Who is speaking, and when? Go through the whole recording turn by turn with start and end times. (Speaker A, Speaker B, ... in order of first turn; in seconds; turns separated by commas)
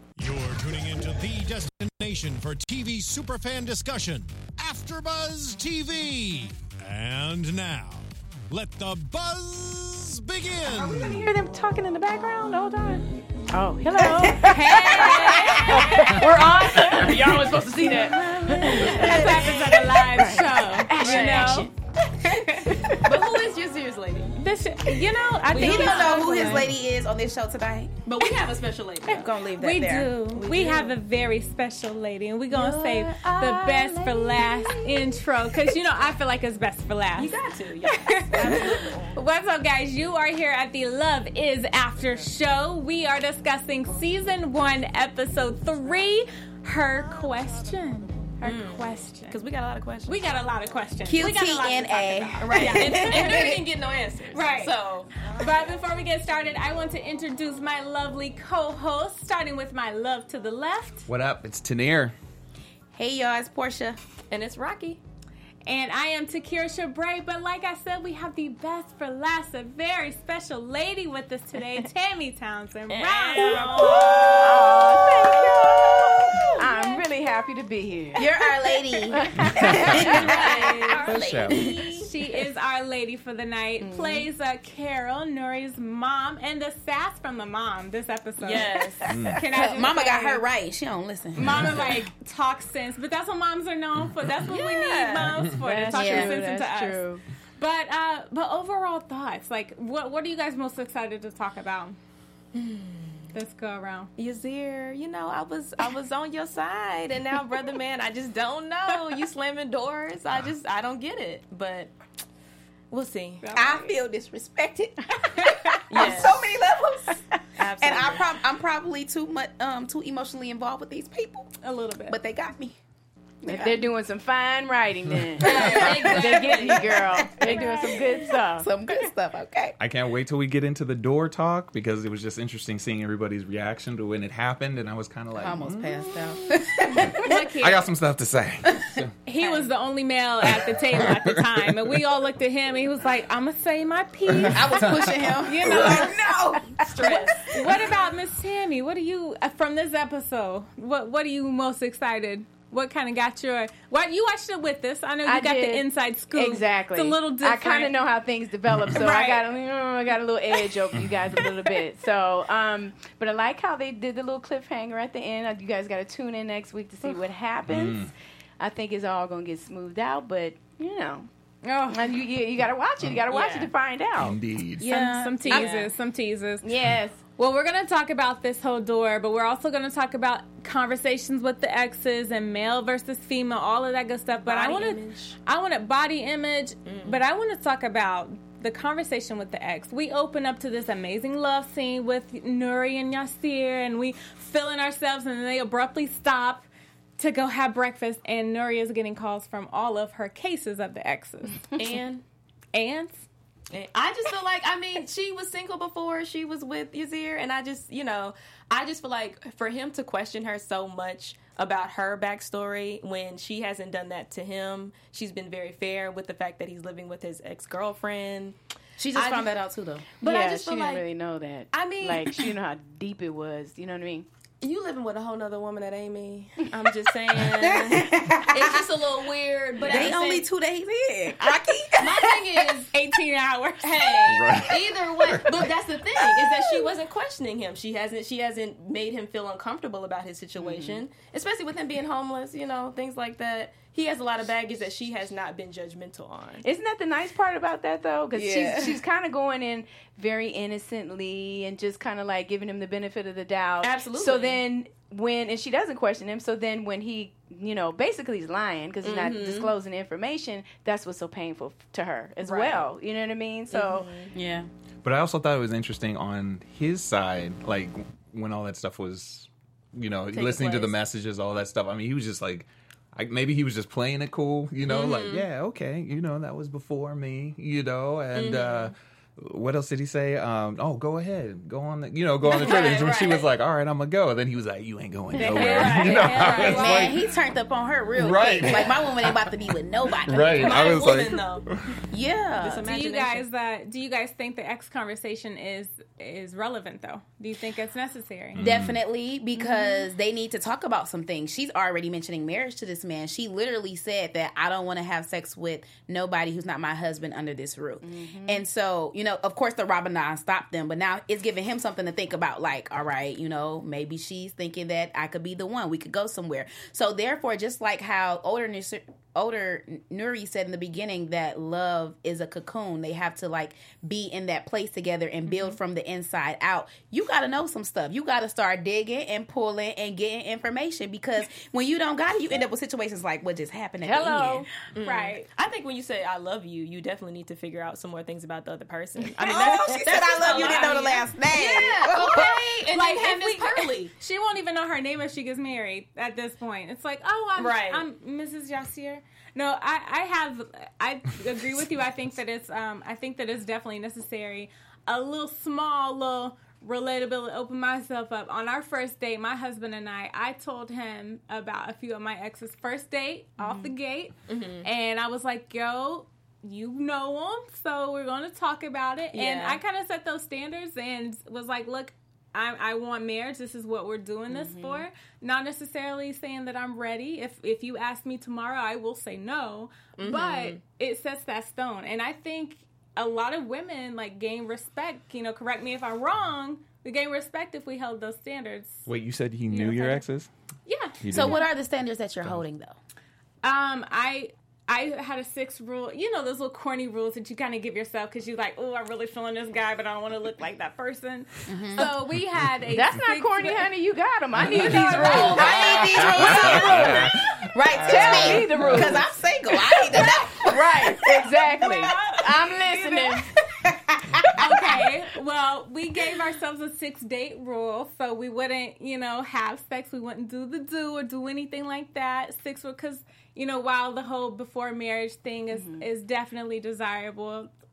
Speaker A: 0.2-11.3, Speaker B: 10.8-21.7, Speaker C: 14.4-16.4, Speaker D: 14.7-16.1, Speaker C: 17.9-21.7, Speaker E: 18.8-19.5, Speaker D: 21.0-21.6, Speaker C: 22.2-22.8, Speaker B: 22.4-23.2, Speaker D: 23.0-24.3, Speaker C: 24.4-26.7, Speaker D: 25.5-26.5, Speaker E: 25.5-28.4, Speaker D: 28.1-29.3, Speaker E: 29.0-30.3, Speaker C: 29.5-37.3, Speaker D: 30.3-30.9, Speaker E: 32.5-33.0, Speaker D: 32.6-34.8, Speaker D: 37.2-39.2, Speaker C: 37.9-49.4, Speaker D: 48.4-50.2, Speaker C: 50.0-53.5, Speaker E: 51.0-53.6, Speaker D: 52.4-55.1, Speaker C: 54.3-61.1, Speaker F: 61.1-62.1, Speaker E: 62.9-64.0, Speaker D: 64.3-65.0, Speaker C: 65.7-75.1, Speaker D: 72.9-76.5, Speaker E: 73.9-76.4, Speaker B: 74.4-78.3, Speaker E: 78.1-80.5, Speaker B: 79.1-80.8, Speaker F: 79.4-80.2, Speaker D: 80.1-81.7, Speaker C: 80.2-81.1, Speaker F: 81.0-81.7, Speaker E: 81.0-82.1, Speaker C: 82.0-88.8, Speaker B: 83.8-84.2, Speaker D: 88.4-89.1, Speaker F: 89.1-89.4, Speaker C: 89.3-90.4, Speaker E: 89.3-91.8, Speaker C: 91.3-97.0, Speaker D: 94.5-95.4, Speaker B: 95.6-97.2, Speaker E: 95.9-96.4, Speaker C: 97.6-102.0, Speaker D: 102.5-103.2, Speaker C: 103.3-104.1, Speaker D: 104.2-111.9, Speaker D: 112.9-113.4, Speaker C: 113.4-113.9, Speaker E: 113.5-117.2, Speaker C: 115.3-115.7, Speaker D: 115.9-116.5, Speaker D: 117.6-118.2, Speaker E: 117.8-121.5, Speaker C: 121.6-122.2, Speaker E: 122.1-122.8, Speaker E: 123.4-123.8, Speaker B: 123.5-129.1, Speaker D: 125.4-127.1, Speaker E: 125.8-129.8, Speaker C: 127.4-128.1, Speaker F: 129.8-139.1, Speaker E: 135.4-137.3, Speaker C: 137.2-137.9, Speaker C: 139.2-146.2, Speaker D: 139.4-139.7, Speaker F: 140.4-142.0, Speaker F: 144.3-146.0, Speaker E: 144.5-147.8, Speaker D: 146.8-147.5, Speaker C: 147.5-157.9, Speaker B: 155.2-171.3, Speaker C: 158.9-159.4, Speaker F: 167.7-168.1, Speaker C: 171.6-172.1, Speaker B: 171.9-174.4, Speaker D: 173.3-173.7, Speaker F: 174.2-174.9, Speaker E: 174.8-175.7, Speaker C: 174.8-176.7, Speaker D: 175.4-175.9, Speaker B: 176.6-177.2, Speaker C: 177.4-196.7, Speaker D: 184.4-185.3, Speaker D: 186.8-187.2, Speaker C: 197.2-201.6, Speaker D: 201.8-202.2, Speaker C: 202.7-203.2, Speaker D: 203.7-218.6, Speaker E: 219.0-220.1, Speaker D: 219.1-219.5, Speaker D: 220.2-221.0, Speaker B: 220.2-224.2, Speaker D: 221.7-222.5, Speaker D: 224.6-230.4, Speaker E: 227.4-228.8, Speaker E: 229.8-232.5, Speaker D: 231.4-232.9, Speaker C: 232.9-234.2, Speaker D: 233.8-246.6, Speaker F: 234.3-235.4, Speaker B: 240.6-241.0, Speaker B: 246.6-264.1, Speaker E: 248.3-249.0, Speaker D: 253.8-254.6, Speaker D: 259.0-259.7, Speaker D: 262.4-262.9, Speaker D: 263.7-264.3, Speaker E: 264.3-264.7, Speaker F: 265.0-287.2, Speaker B: 270.3-270.9, Speaker D: 274.9-275.4, Speaker D: 278.3-278.9, Speaker D: 282.5-283.2, Speaker B: 282.5-283.0, Speaker E: 285.4-285.9, Speaker D: 285.5-287.1, Speaker C: 285.6-287.0, Speaker E: 286.7-291.0, Speaker F: 288.2-289.5, Speaker F: 290.2-292.1, Speaker D: 290.6-291.7, Speaker E: 292.1-292.9, Speaker D: 292.6-293.4, Speaker C: 292.8-298.6, Speaker F: 298.5-299.0, Speaker E: 298.6-334.7, Speaker B: 308.0-308.6, Speaker C: 325.5-325.8, Speaker B: 334.0-334.7, Speaker D: 334.9-344.1, Speaker C: 335.0-335.5, Speaker E: 339.4-342.4, Speaker C: 340.5-341.0, Speaker C: 342.3-389.1, Speaker D: 347.6-348.0, Speaker D: 364.5-364.9, Speaker D: 369.3-369.8, Speaker B: 374.5-375.0, Speaker D: 380.2-380.8, Speaker F: 389.1-390.5, Speaker C: 389.7-390.2, Speaker C: 390.9-391.6, Speaker F: 391.2-391.6, Speaker E: 391.3-393.0, Speaker C: 393.6-403.9, Speaker E: 401.7-402.1, Speaker B: 402.9-407.3, Speaker C: 404.6-405.8, Speaker F: 404.7-409.2, Speaker E: 405.3-411.4, Speaker B: 408.0-409.3, Speaker B: 409.9-413.5, Speaker C: 411.7-413.4, Speaker E: 413.7-414.7, Speaker C: 414.6-427.7, Speaker B: 425.7-426.0